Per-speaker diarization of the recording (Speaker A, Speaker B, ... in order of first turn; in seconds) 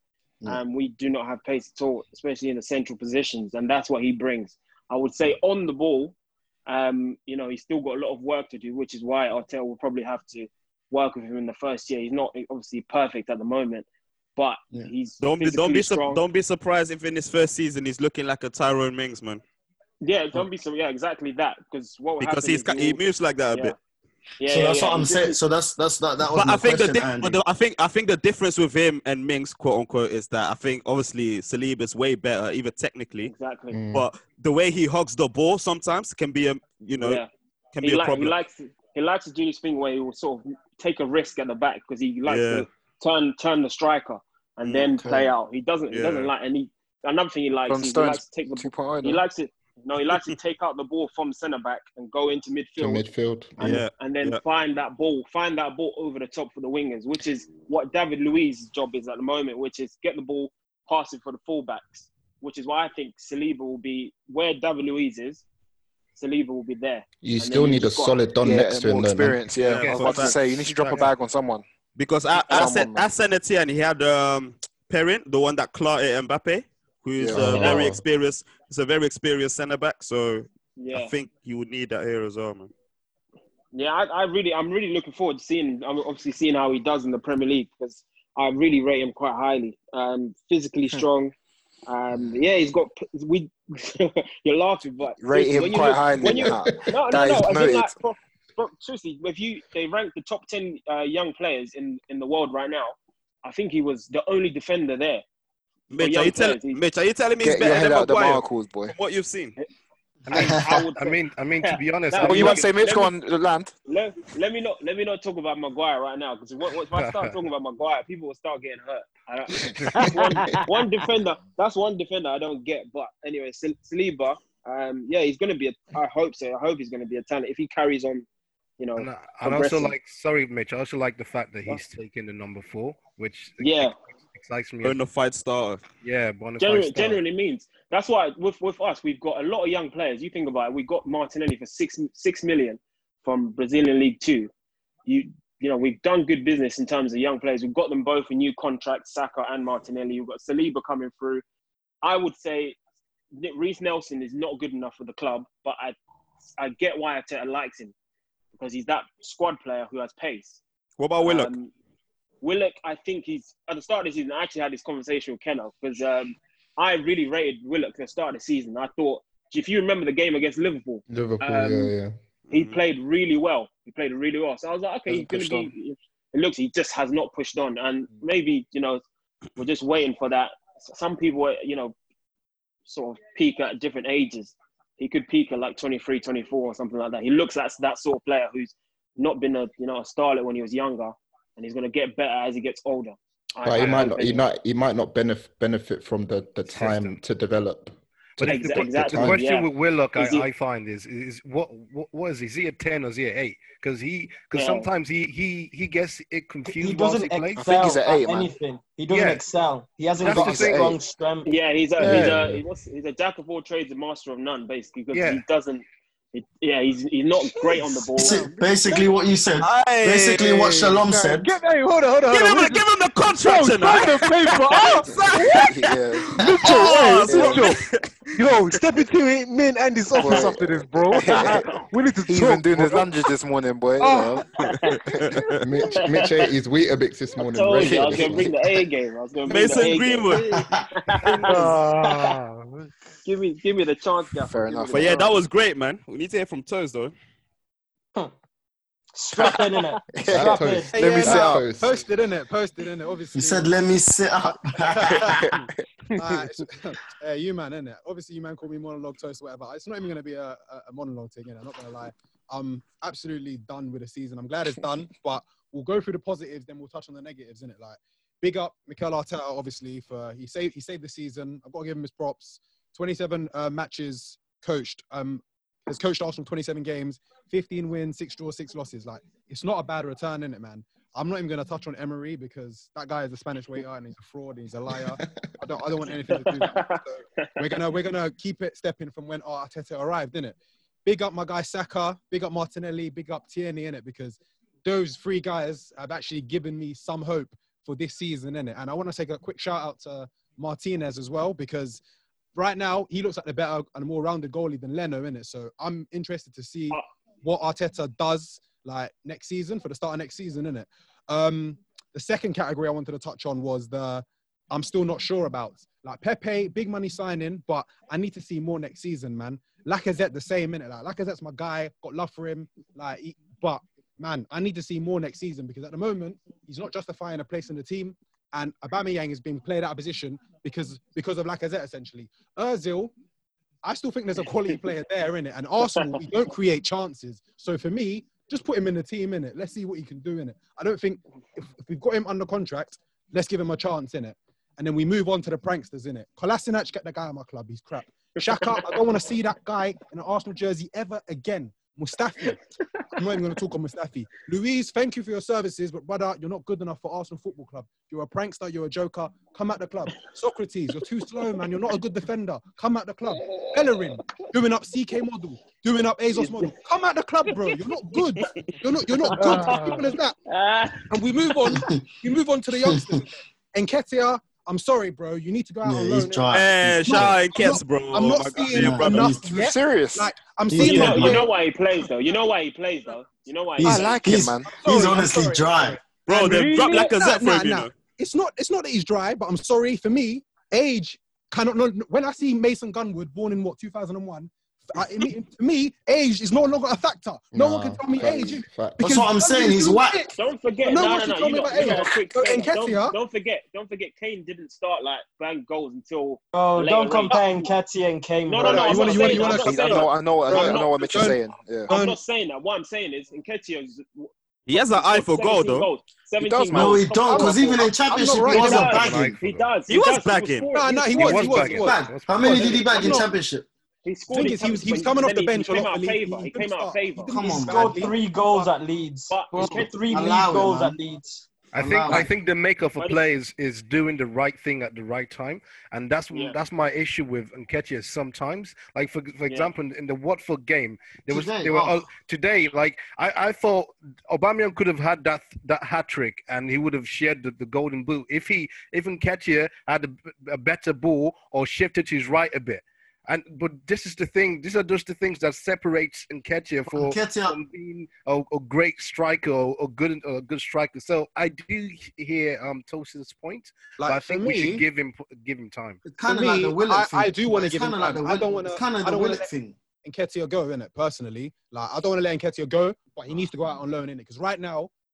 Speaker A: 0.5-16.2, 20.0-23.8, 24.4-25.4, 33.2-33.8, 37.0-37.3, 37.8-53.1, 53.6-65.5, 66.2-68.3, 80.8-81.2, 83.7-91.3, 91.9-105.2, 106.0-106.8, 110.3-113.1, 113.9-128.3, 128.8-129.9, 133.6-133.9, 136.6-144.5, 145.1-151.4, 152.0-152.8, 153.3-155.9, 156.6-157.9, 158.5-160.6, 161.2-161.7, 162.4-171.9, 172.5-179.0, 179.6-181.9, 182.9-194.4, 198.4-200.5, 204.5-204.9, 211.4-218.5, 231.2-231.6, 234.6-235.0, 235.9-236.5, 237.4-242.3, 243.3-245.4, 286.3-287.7, 336.0-336.2, 348.5-348.8, 363.4-364.5, 366.3-366.8, 367.5-367.8, 369.2-371.1, 380.8-384.2, 400.3-407.7, 408.5-411.4, 411.9-421.9, 423.0-423.2, 424.1-427.3, 429.3-430.3, 433.0-433.2, 436.3-436.6
Speaker B: 15.2-19.4, 22.2-23.8, 26.3-33.3, 33.9-37.2, 37.8-38.4, 42.3-42.7, 45.9-46.3, 53.6-54.4, 69.6-70.4, 72.0-82.7, 105.9-109.5, 134.8-135.8, 161.0-161.5, 172.5-172.8, 219.6-221.0, 222.3-228.1, 234.6-235.6, 239.5-240.4, 244.9-247.1, 376.5-379.4, 386.3-387.9, 414.7-415.9, 419.9-420.7
Speaker C: 24.4-27.4, 44.7-45.3, 110.3-110.6, 218.2-221.5, 240.5-240.9, 253.3-255.3, 371.8-372.0, 372.8-373.2, 375.8-377.5, 378.7-379.6, 380.7-381.5, 384.2-386.0, 399.0-400.3, 416.7-419.4, 421.8-423.7, 427.3-427.9, 430.1-431.0, 431.8-432.3, 441.2-442.1, 456.9-457.6, 466.0-469.8
Speaker D: 33.7-34.1, 52.8-53.8, 67.2-69.4, 77.3-78.0, 171.1-172.2, 193.6-199.4, 235.6-238.5, 250.3-252.0, 397.5-399.1
Speaker E: 47.7-49.2, 68.4-71.7, 72.5-73.1, 77.2-77.8, 95.2-97.9, 107.4-109.0, 112.2-113.7, 175.1-175.7, 207.6-208.5, 210.2-211.0, 225.4-226.4, 227.3-227.7, 230.2-231.7, 232.3-234.5, 237.8-238.5, 244.4-245.2, 250.2-251.7, 379.5-380.3, 383.8-384.8, 409.5-411.9, 416.4-417.1
Speaker F: 69.7-71.1, 110.3-112.7, 116.9-117.3, 129.0-135.0, 136.0-137.2, 196.7-197.1, 198.4-207.6, 209.1-209.4, 210.2-211.0, 215.1-215.4, 418.6-419.7, 421.1-422.9, 431.7-466.0
Speaker G: 206.7-211.5, 249.2-251.0, 406.5-409.7, 427.7-431.4
Speaker H: 212.0-212.3, 218.2-218.7, 221.1-225.7, 226.4-227.8, 228.3-233.1, 241.4-242.9, 369.4-370.1
Speaker I: 250.9-253.8, 254.5-302.0, 302.6-333.1, 333.8-352.6, 353.2-370.4, 371.1-381.5, 384.6-403.2, 408.6-412.2, 417.3-419.2, 420.7-421.8, 422.5-423.3, 424.3-428.7, 464.0-464.9, 466.2-469.5, 470.0-474.9